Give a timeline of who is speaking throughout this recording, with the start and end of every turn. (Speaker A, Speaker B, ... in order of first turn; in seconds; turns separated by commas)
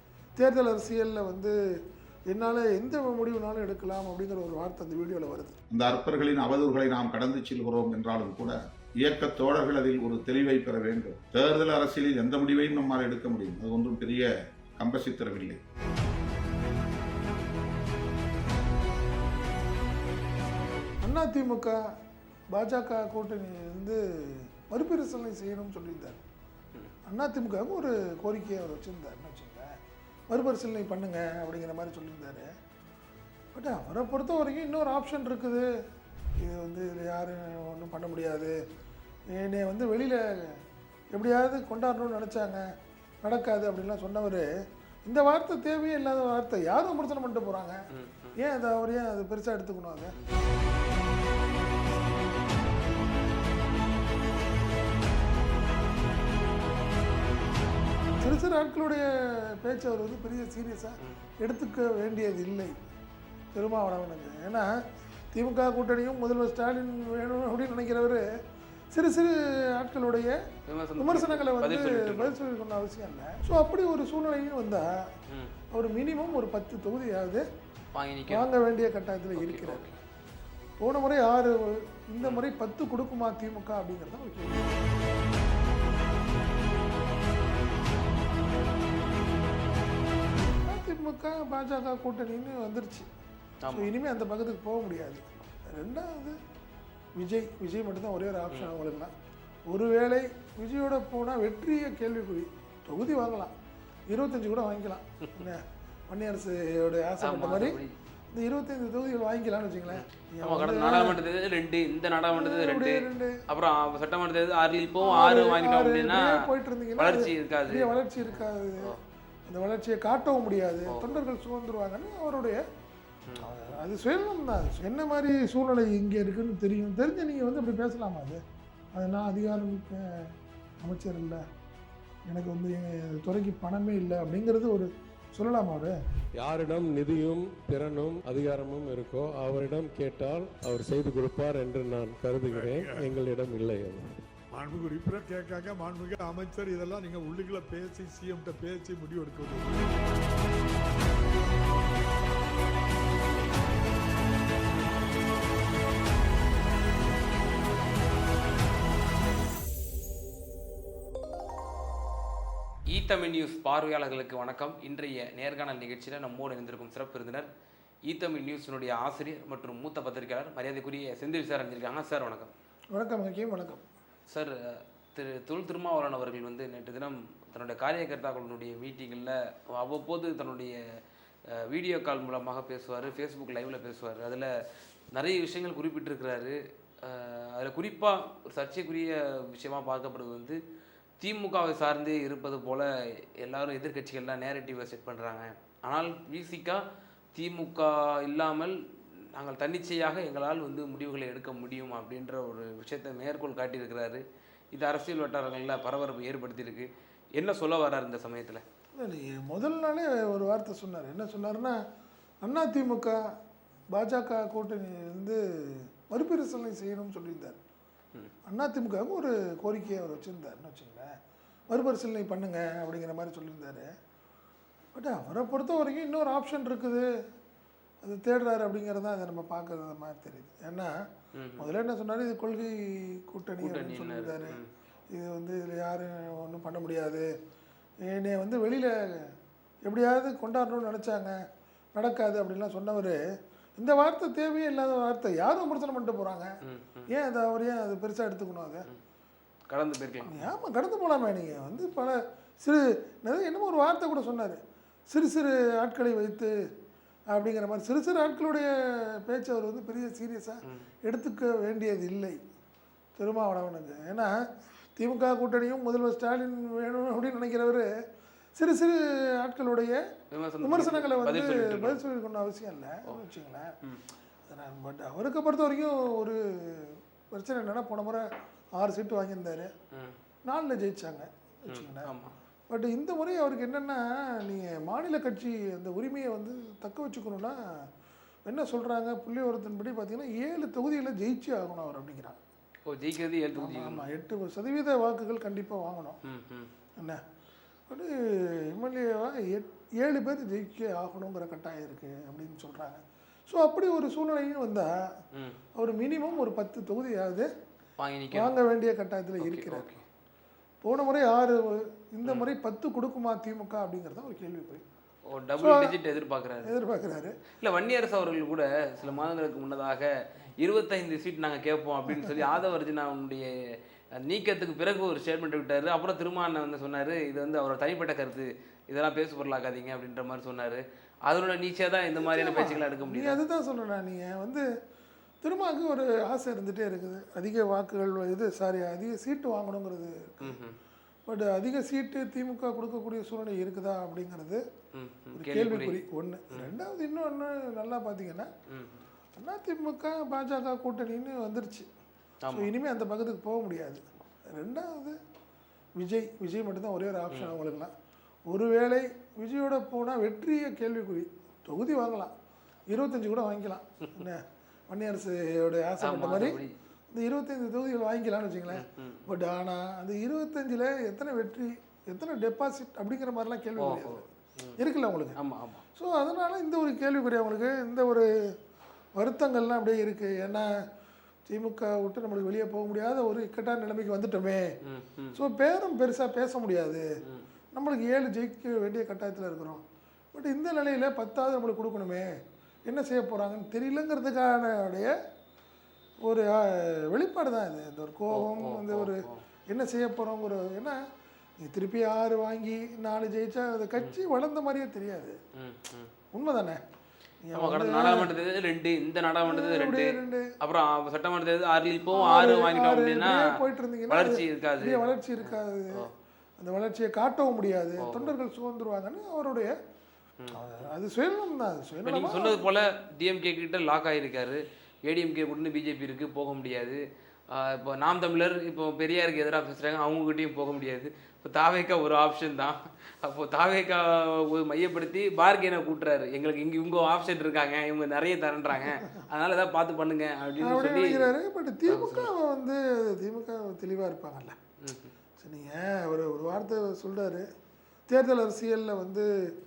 Speaker A: 0.3-1.5, Speaker A: 2.3-5.6, Speaker B: 5.7-15.6, Speaker A: 21.0-21.8, Speaker A: 22.5-26.2, Speaker A: 27.1-29.7, Speaker A: 30.3-32.5, Speaker A: 33.5-35.6, Speaker A: 36.4-38.6, Speaker A: 39.3-40.6, Speaker A: 41.1-42.6, Speaker A: 43.2-44.5, Speaker A: 45.0-47.8, Speaker C: 47.9-48.4, Speaker A: 48.4-50.1, Speaker A: 58.2-62.8, Speaker A: 63.5-64.7, Speaker A: 65.3-68.2, Speaker A: 68.9-70.4, Speaker C: 70.7-72.3, Speaker A: 71.0-74.9, Speaker A: 75.7-77.4, Speaker C: 77.9-78.5, Speaker A: 78.3-79.8, Speaker C: 79.3-80.0, Speaker A: 80.8-84.8, Speaker A: 90.7-93.1, Speaker C: 93.6-93.9, Speaker A: 93.7-96.4, Speaker A: 97.2-99.1, Speaker A: 99.7-103.5, Speaker A: 104.1-107.8, Speaker C: 107.2-107.9, Speaker A: 108.3-111.2, Speaker C: 109.9-116.3, Speaker A: 112.3-113.4, Speaker A: 115.0-118.9, Speaker C: 117.0-119.0, Speaker A: 119.5-122.6, Speaker C: 120.9-121.2, Speaker A: 123.4-128.4, Speaker A: 128.9-130.3, Speaker A: 130.8-131.4, Speaker A: 132.3-135.9, Speaker D: 136.4-144.0, Speaker E: 142.5-143.1, Speaker E: 144.5-150.0, Speaker C: 162.9-167.5, Speaker C: 168.1-172.5, Speaker A: 172.9-173.8, Speaker C: 174.3-180.8, Speaker C: 181.5-184.5, Speaker C: 185.1-190.6, Speaker C: 191.2-192.9, Speaker C: 193.4-196.8, Speaker C: 197.3-198.7, Speaker C: 199.3-208.6, Speaker A: 208.9-211.8, Speaker A: 212.4-213.2, Speaker A: 213.9-217.6, Speaker A: 218.5-221.1, Speaker A: 221.7-223.9, Speaker A: 224.9-227.1, Speaker A: 228.0-230.9, Speaker C: 231.3-231.7, Speaker A: 231.6-234.6, Speaker C: 233.6-234.6, Speaker A: 235.1-237.3, Speaker A: 238.1-239.3, Speaker A: 239.8-241.3, Speaker A: 241.9-243.2, Speaker A: 243.8-246.5, Speaker C: 246.7-247.1, Speaker A: 247.1-248.9, Speaker C: 249.7-250.5, Speaker A: 250.2-254.6, Speaker A: 255.1-256.5, Speaker A: 257.3-262.4, Speaker A: 263.2-264.3, Speaker A: 265.0-267.9, Speaker A: 268.6-270.0, Speaker C: 270.3-272.0, Speaker A: 270.6-273.7, Speaker A: 274.4-279.7, Speaker A: 280.5-282.1, Speaker C: 281.7-282.3, Speaker A: 282.7-287.6, Speaker A: 288.4-292.4, Speaker C: 292.9-294.1, Speaker A: 293.6-296.2, Speaker C: 296.2-296.7, Speaker A: 297.9-298.1, Speaker A: 298.7-304.9, Speaker A: 305.7-307.5, Speaker C: 308.0-308.5, Speaker A: 308.3-310.0, Speaker C: 309.4-310.0, Speaker A: 310.8-314.8, Speaker C: 315.3-316.7, Speaker A: 315.6-315.9, Speaker A: 316.6-317.4, Speaker C: 317.6-323.5, Speaker A: 322.1-322.5, Speaker C: 324.2-333.4, Speaker A: 332.2-334.6, Speaker A: 335.4-340.6, Speaker C: 340.4-340.8, Speaker A: 341.2-344.6, Speaker C: 344.9-346.7, Speaker A: 345.4-348.5, Speaker C: 348.7-349.0, Speaker A: 349.4-351.9, Speaker C: 352.4-352.7, Speaker A: 352.5-354.0, Speaker A: 354.5-355.2, Speaker A: 356.0-357.9, Speaker A: 358.5-362.3, Speaker A: 362.9-366.6, Speaker C: 366.0-366.7, Speaker A: 367.1-375.4, Speaker C: 368.7-369.2, Speaker C: 373.8-374.8, Speaker C: 375.4-375.8, Speaker A: 375.9-378.3, Speaker A: 379.1-380.7, Speaker A: 381.5-384.7, Speaker C: 384.9-385.4, Speaker A: 385.3-387.0, Speaker A: 387.7-389.8, Speaker A: 390.3-392.3, Speaker A: 392.9-395.1, Speaker A: 396.2-401.0, Speaker C: 398.3-399.4, Speaker A: 401.6-405.4, Speaker C: 405.6-406.1, Speaker A: 406.3-406.8, Speaker A: 407.4-408.3, Speaker C: 407.6-413.4, Speaker A: 409.4-410.5, Speaker A: 412.1-416.0, Speaker C: 414.1-416.1, Speaker A: 416.6-419.7, Speaker C: 418.0-418.3, Speaker A: 420.5-422.7, Speaker C: 422.0-441.3, Speaker A: 440.6-444.5, Speaker C: 441.9-442.3, Speaker C: 444.8-445.1, Speaker A: 445.4-447.4, Speaker A: 448.1-449.2